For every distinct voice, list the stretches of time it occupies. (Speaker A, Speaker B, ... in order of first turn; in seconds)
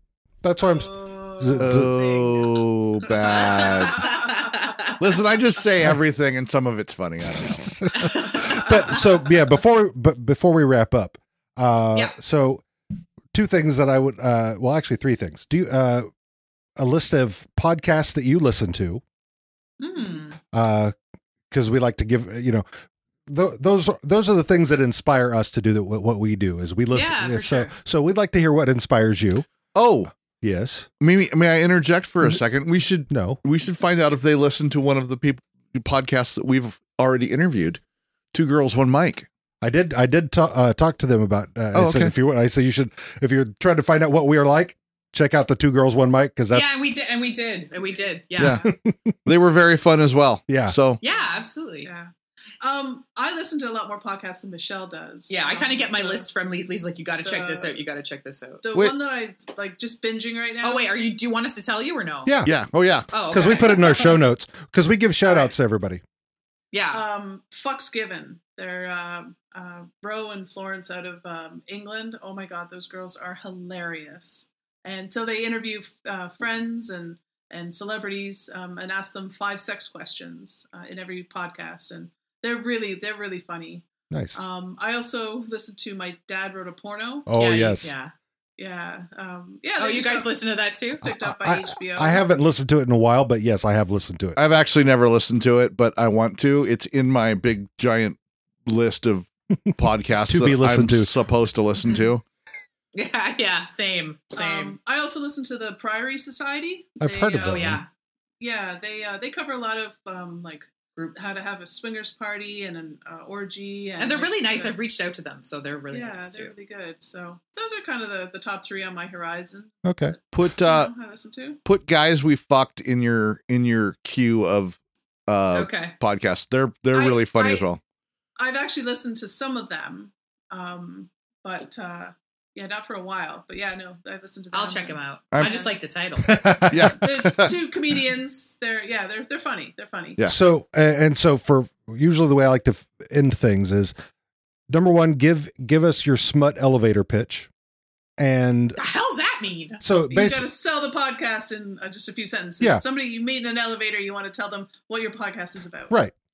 Speaker A: 0.4-1.9, 7.3-12.6, 13.3-16.1, 16.8-19.0, 20.5-20.9, 21.5-22.7, 23.3-29.5, 30.4-30.9, 33.1-33.4, 39.6-46.8, 48.6-49.1, 50.5-50.8, 62.2-62.5, 63.3-66.0, 84.1-84.4, 87.3-87.9, 91.0-94.4, 99.7-101.2, 107.0-107.8, 119.8-120.2, 136.2-137.0, 140.2-143.9, 144.7-147.5, 148.2-148.8, 149.8-150.5
Speaker B: 0.6-2.7, 3.3-5.0, 47.8-48.7, 51.1-56.3, 57.2-57.8, 58.6-60.9, 65.3-65.5, 66.9-87.3, 88.6-90.5, 91.0-92.2, 104.3-107.8, 108.4-114.7, 115.9-119.8, 120.6-121.6, 126.9-127.7, 128.4-135.7, 137.0-140.2, 150.1-155.9
Speaker C: 1.6-4.1, 5.0-7.7, 29.7-30.1, 31.0-37.8, 38.3-39.3, 41.7-42.1, 48.4-48.6, 49.3-51.0, 62.5-63.1, 94.4-102.2, 120.3-120.9, 121.7-127.8, 136.7-137.6
Speaker D: 3.2-5.0, 8.0-8.7, 19.8-20.4, 26.9-27.7, 46.5-48.6, 51.0-51.9, 55.3-58.6, 60.6-62.4, 63.1-64.2, 66.7-67.0, 87.3-88.1, 89.8-91.0, 102.9-104.8, 107.4-107.9, 114.0-116.5, 125.5-125.9, 134.5-136.4, 148.8-149.8